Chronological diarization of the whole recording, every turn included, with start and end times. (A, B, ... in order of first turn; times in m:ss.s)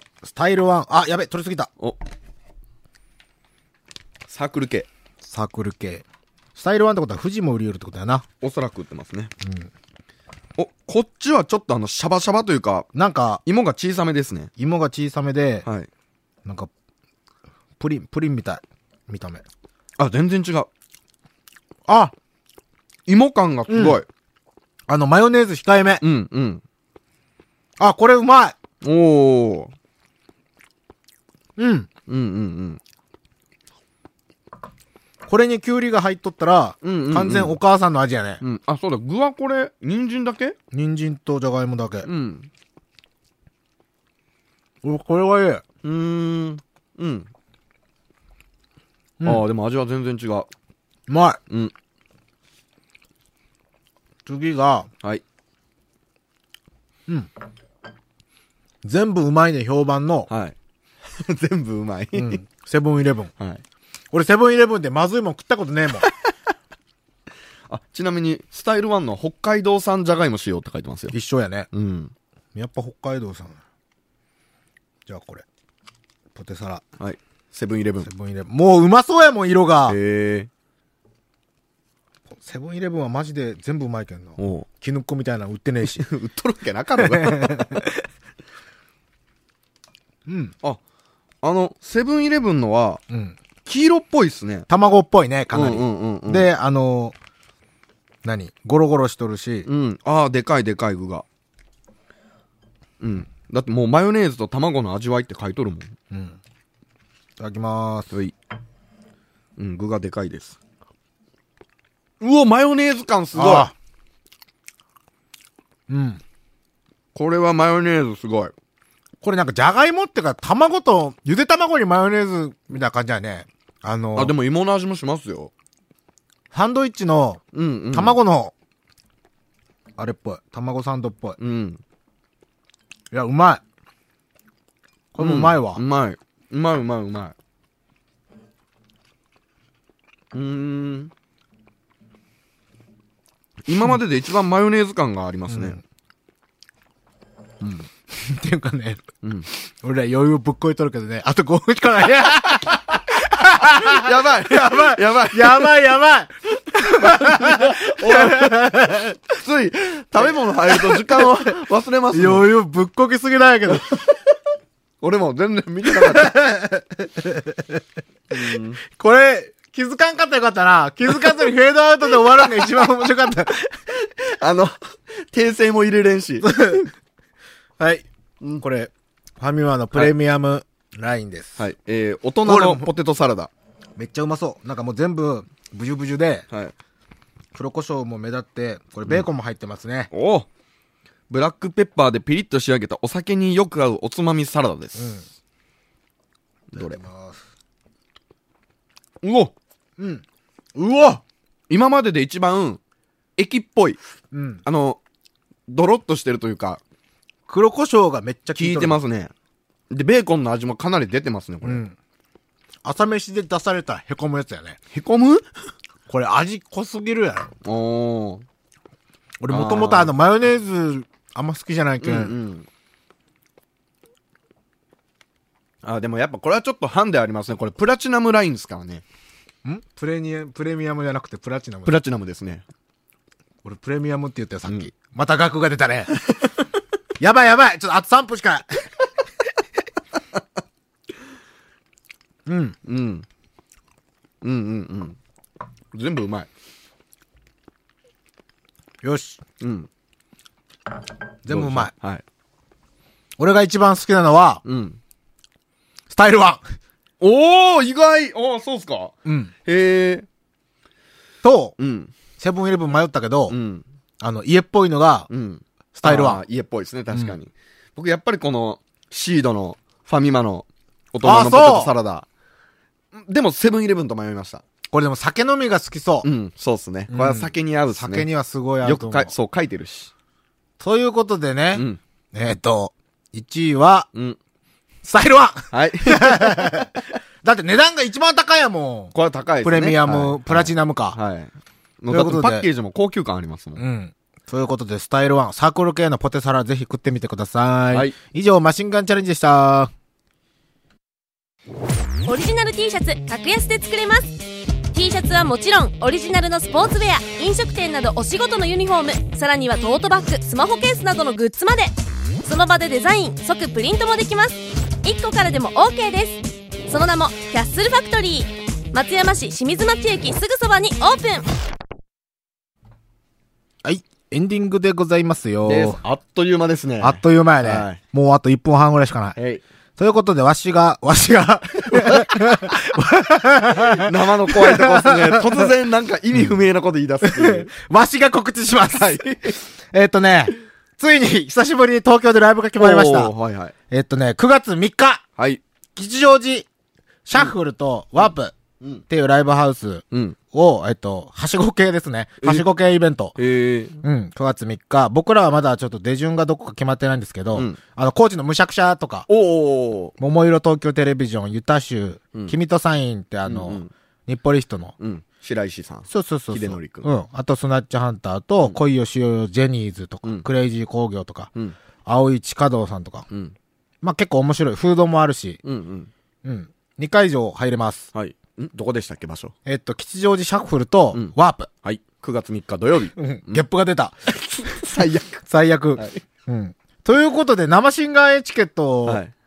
0:00.2-0:01.7 A
0:04.3-0:04.9 B
0:05.2-0:08.2 A
0:08.4-0:09.3 B
0:09.4-0:09.7 A
0:10.6-0:12.9 B
0:12.9-0:13.4 A
0:13.4-0:14.5 B
0:14.6-0:15.6 A
0:16.4-0:16.7 A
0:17.8-0:19.4 A
0:20.0-0:20.7 B
0:21.9-0:22.1 A
0:23.1-0:24.0 B
0:23.7-0:24.0 A
0:24.9-0:26.0 A
0:26.0-0:26.6 B
0:27.8-0:28.6 A
0:28.8-0:29.7 B
0:31.6-0:31.9 A
0:32.1-0:32.8 B
0:35.3-0:38.4 A
0:36.8-0:37.6 B
0:38.4-0:40.6 B
0:40.7-0:42.1 A
0:42.0-0:42.5 B
0:44.8-0:45.6 A
0:45.8-0:47.3 B
0:49.2-0:50.5 B
0:51.1-0:51.4 A
0:54.2-0:54.9 A
0:58.8-1:00.3 A
1:00.3-1:00.6 B
1:01.1-1:02.4 B
1:02.1-1:03.3 A
1:04.1-1:06.1 A
1:06.0-1:06.3 B
1:07.7-1:11.1 B
1:11.1-1:11.7 A
1:11.7-1:12.1 B
1:12.5-1:13.6 A
1:15.0-1:15.4 A
1:16.3-1:16.8 A
1:17.0-1:18.1 B
1:18.0-1:20.0 A
1:19.9-1:20.5 B
1:22.3-1:26.0 A
1:24.4-1:24.7 B
1:25.9-1:27.8 B
1:27.0-1:28.0 A
1:30.2-1:30.5 A
1:31.4-1:33.0 B
1:33.1-1:33.4 A
1:33.6-1:34.7 B
1:34.7-1:37.1 A
1:35.5-1:36.5 B
1:38.2-1:39.7 A
1:39.6-1:41.2 B
1:43.0-1:45.9 B
1:46.1-1:46.4 A
1:47.4-1:48.1 A
1:49.6-1:50.6 B
1:52.2-1:53.7 B
1:53.3-1:53.7 A
1:55.9-1:56.2 A
1:57.1-1:58.5 B
1:59.2-2:04.3 A
2:04.2-2:05.5 B
2:06.5-2:08.5 A
2:07.5-2:08.2 B
2:10.0-2:11.4 A
2:11.4-2:11.8 B
2:13.1-2:13.6 A
2:15.1-2:15.8 A
2:15.2-2:17.3 B
2:20.3-2:21.1 B
2:23.6-2:25.8 B
2:25.5-2:25.8 A
2:27.6-2:27.9 B
2:28.1-2:39.2 A
2:29.2-2:29.5 B
2:32.6-2:35.7 B
2:36.8-2:38.8 B
2:39.3-2:42.5 B
2:40.2-2:41.5 A
2:42.1-2:44.0 A
2:45.0-2:46.4 B
2:45.9-2:47.8 A
2:48.3-2:48.8 B
2:48.9-2:53.8 A
2:54.0-2:56.9 B
2:56.4-2:56.9 A
2:57.8-2:58.0 A
2:58.6-3:01.6 A
3:01.6-3:03.5 B
3:02.4-3:02.9 A
3:04.0-3:06.5 A
3:07.5-3:10.1 A
3:10.1-3:10.5 B
3:11.3-3:15.2 B
3:15.0-3:15.2 A
3:16.7-3:17.0 B
3:16.7-3:17.4 A
3:19.2-3:19.5 B
3:20.0-3:20.2 A
3:20.7-3:21.2 A
3:21.7-3:22.8 B
3:23.4-3:24.0 B
3:24.3-3:24.6 A
3:24.6-3:25.0 B
3:25.7-3:26.8 B
3:27.5-3:29.0 A
3:28.6-3:29.3 B
3:29.9-3:31.8 B
3:31.6-3:31.9 A
3:32.8-3:34.8 A
3:34.9-3:35.4 B
3:36.1-3:37.5 A
3:37.6-3:38.4 B
3:39.4-3:42.4 A
3:39.5-3:40.1 B
3:42.0-3:42.6 B
3:45.8-3:49.0 B
3:49.6-3:52.0 A
3:51.8-3:52.6 B
3:53.6-3:56.1 A
3:57.2-3:58.9 A
4:02.4-4:02.8 A
4:02.8-4:03.2 B
4:04.4-4:05.2 B
4:05.9-4:06.5 B
4:09.0-4:09.4 A
4:09.6-4:09.9 B
4:11.4-4:11.9 A
4:11.5-4:12.2 B
4:13.4-4:14.6 A
4:14.6-4:15.0 B
4:16.1-4:16.6 A
4:17.2-4:20.3 B
4:19.2-4:19.5 A
4:21.4-4:21.7 A
4:21.8-4:22.1 B
4:22.4-4:23.6 A
4:23.5-4:23.8 B
4:24.2-4:25.3 A
4:25.3-4:32.3 B
4:25.9-4:26.4 A
4:31.2-4:31.9 A
4:33.1-4:34.6 B
4:34.9-4:36.3 A
4:36.2-4:38.3 B
4:37.1-4:39.3 A
4:38.8-4:40.1 B
4:40.8-4:44.1 A
4:41.7-4:42.0 B
4:45.0-4:46.9 A
4:45.7-4:47.0 B
4:47.4-4:51.2 A
4:49.1-4:53.8 B
4:52.1-4:52.7 A
4:53.8-4:59.9 A
4:57.9-4:58.2 B
5:02.2-5:04.4 C
5:04.9-5:21.5 C
5:23.8-5:26.0 A
5:25.6-5:28.0 B
5:27.0-5:29.4 A
5:29.4-5:29.6 B
5:30.0-5:35.7 A
5:31.8-5:32.7 B
5:33.8-5:37.7 B
5:37.2-5:39.2 A
5:38.9-5:39.6 B
5:39.9-5:43.3 A
5:42.8-5:43.7 B
5:43.9-5:45.2 A
5:46.0-5:46.7 A
5:47.2-5:48.5 A
5:49.1-5:53.4 A
5:53.4-5:54.0 B
5:54.0-5:59.3 A
5:57.5-5:57.8 B
5:59.3-6:00.1 B
6:00.2-6:04.9 A
6:03.4-6:03.9 B
6:05.0-6:07.1 B
6:06.1-6:11.5 A
6:12.0-6:13.3 A
6:14.0-6:15.6 A
6:15.6-6:16.1 B
6:16.4-6:18.1 A
6:18.1-6:19.5 B
6:19.6-6:21.7 A
6:21.1-6:23.6 B
6:23.2-6:24.1 A
6:24.3-6:25.4 B
6:25.4-6:29.2 A
6:26.0-6:26.2 B
6:29.0-6:29.3 B